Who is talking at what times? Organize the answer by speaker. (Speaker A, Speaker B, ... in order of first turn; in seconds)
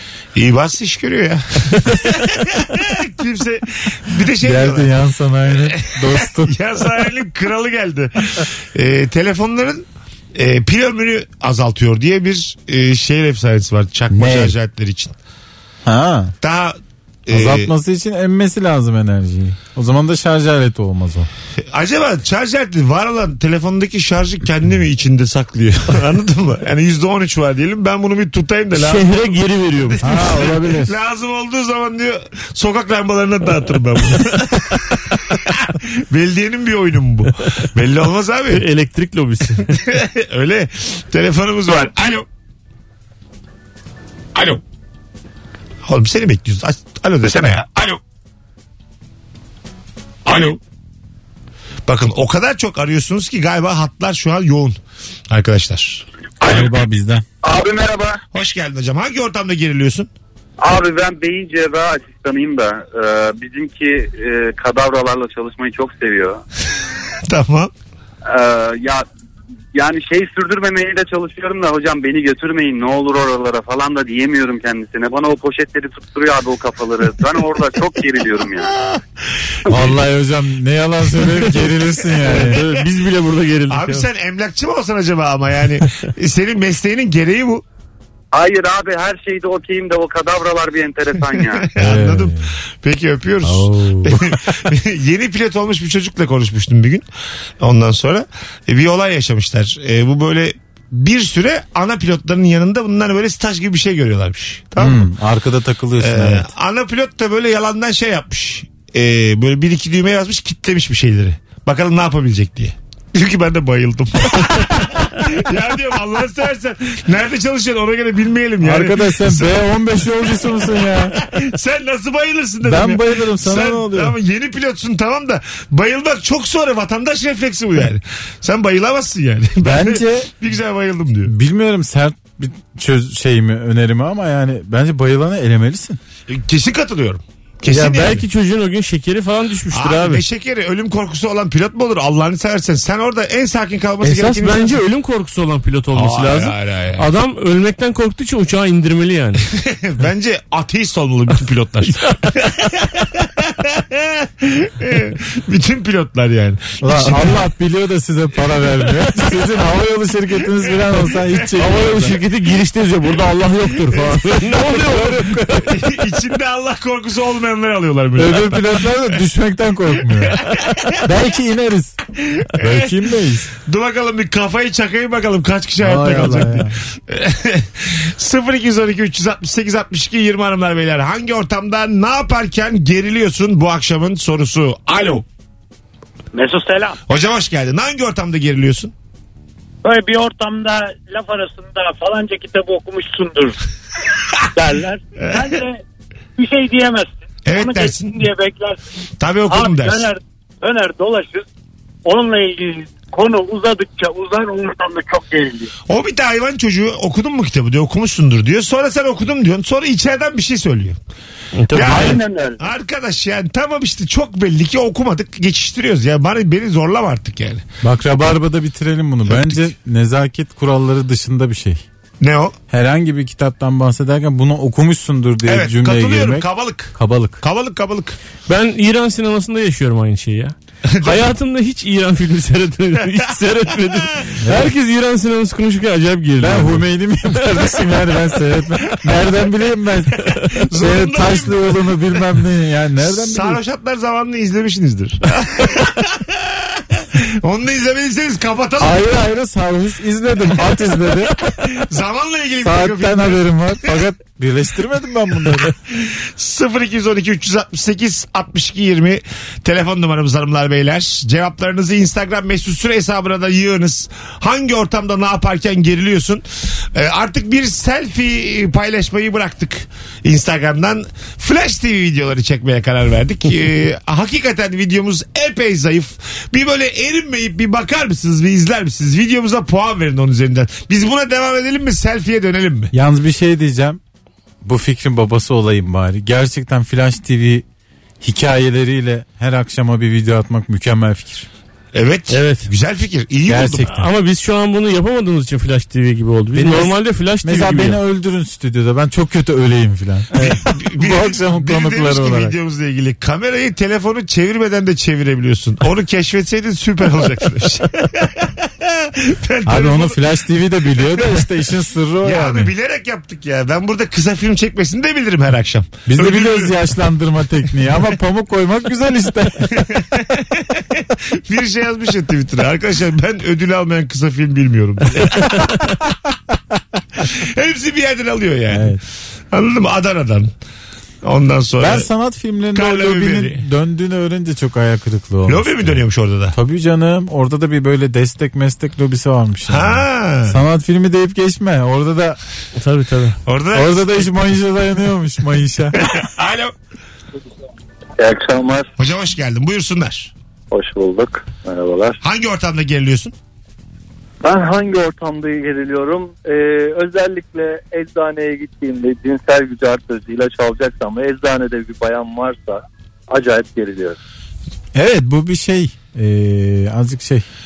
Speaker A: 0.3-4.9, 6.1-15.1, 16.4-17.7, 21.7-29.1, 29.8-38.6, 39.7-42.2, 44.3-44.6, 45.9-48.0, 50.2-50.6, 51.9-54.8, 55.3-56.6, 58.3-60.1, 67.3-67.7, 82.3-82.6, 83.7-87.6, 91.4-97.0, 97.6-105.0, 106.0-119.6, 120.2-131.3, 136.3-138.2, 139.7-144.8, 145.9-147.1, 149.6-157.4, 158.8-159.3, 160.6-161.4, 163.9-164.2, 165.6-169.2, 170.2-170.9, 172.4-172.9, 173.6-185.2, 187.1-188.9, 197.4-198.1, 199.2-200.1, 205.9-211.0, 211.7-217.6, 219.3-219.6, 222.2-222.5, 225.5-228.2, 230.9-231.2, 240.4-241.8, 243.0-249.0, 251.7-253.9, 255.7-282.9, 291.9-293.9, 300.4-310.2, 310.9-311.4, 312.2-316.8, 319.8-325.9, 327.2-329.0, 329.5-330.5, 331.2-332.1, 332.8-333.6, 335.5-336.5, 339.7-340.6, 343.4-344.3, 346.0-346.7, 349.0-350.3, 352.2-353.3
Speaker B: 4.4-6.6, 14.1-14.5, 15.8-16.3, 17.3-21.3, 30.0-30.9, 56.4-57.2, 79.7-82.6, 91.8-92.5, 93.4-94.4, 104.8-106.5, 118.6-121.2, 122.6-124.2, 129.6-130.3, 131.2-136.0, 156.8-162.2, 164.4-165.7, 168.2-172.0, 172.6-173.5, 175.8-176.8, 217.8-221.8, 222.7-227.4, 234.4-234.7, 236.4-243.6, 248.8-251.3, 252.6-255.7, 282.9-284.0, 284.6-287.6, 288.2-291.5, 293.5-294.1, 296.5-302.6, 309.6-312.7, 316.1-320.0, 328.7-329.0, 331.8-342.4, 343.7-346.0, 364.9-367.4
Speaker C: 28.7-30.1, 38.5-39.8, 81.4-81.7, 82.2-84.1, 137.7-140.2, 144.0-149.4, 161.6-165.7, 211.5-212.2, 228.5-236.9, 292.3-292.7, 293.9-298.0, 342.8-343.4
Speaker D: 57.4-58.2, 60.6-66.4, 68.2-69.0, 69.7-78.7, 88.3-91.7
Speaker E: 186.3-187.0, 189.8-193.6, 194.5-195.8, 196.3-198.8, 199.5-201.4, 202.0-205.7, 211.8-212.6
Speaker F: 348.2-348.9, 350.7-352.2, 354.4-364.2